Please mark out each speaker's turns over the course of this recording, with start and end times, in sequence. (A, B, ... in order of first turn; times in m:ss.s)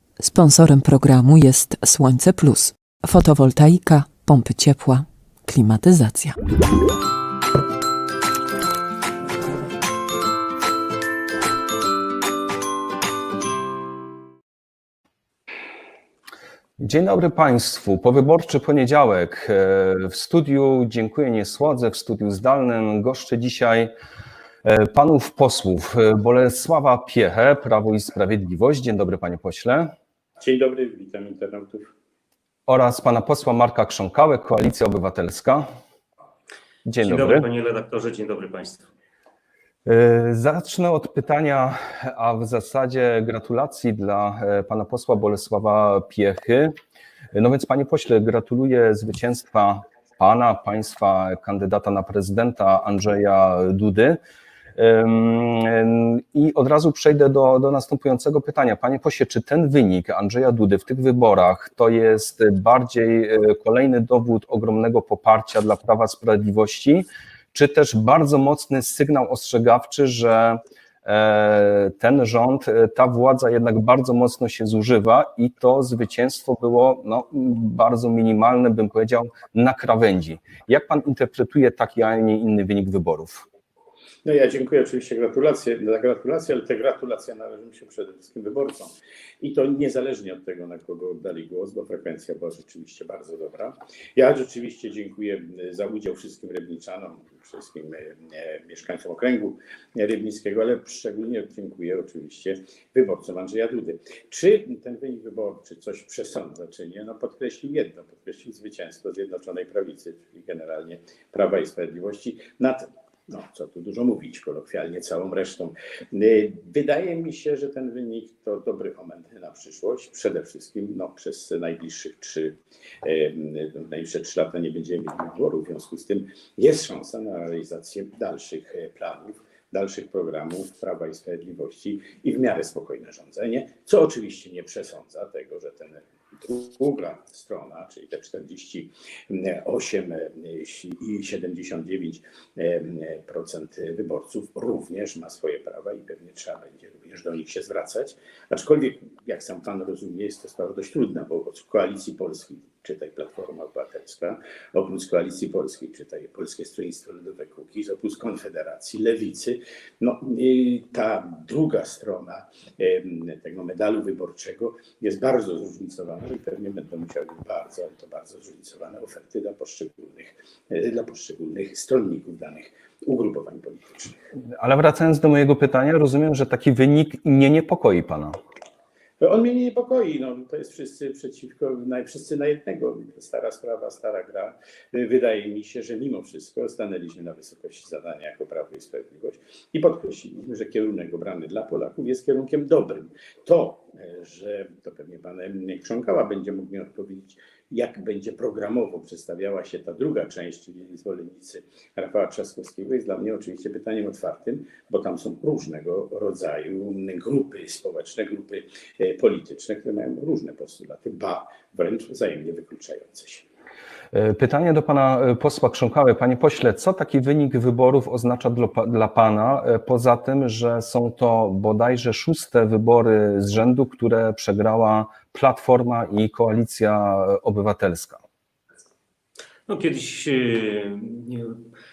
0:00.2-0:06.4 A
0:16.8-0:23.9 B
0:24.6-0:29.9 B
0:30.4-0:31.9 C
0:32.7-0:35.6 B
0:36.8-0:37.5 B
0:37.0-0:38.9 D
0:39.8-0:46.7 B
0:47.3-0:54.2 B
0:54.8-1:23.5 B
1:24.2-2:54.2 C
2:54.6-2:58.3 B
2:59.2-3:33.4 C
3:34.1-3:48.2 B
3:49.7-3:51.6 D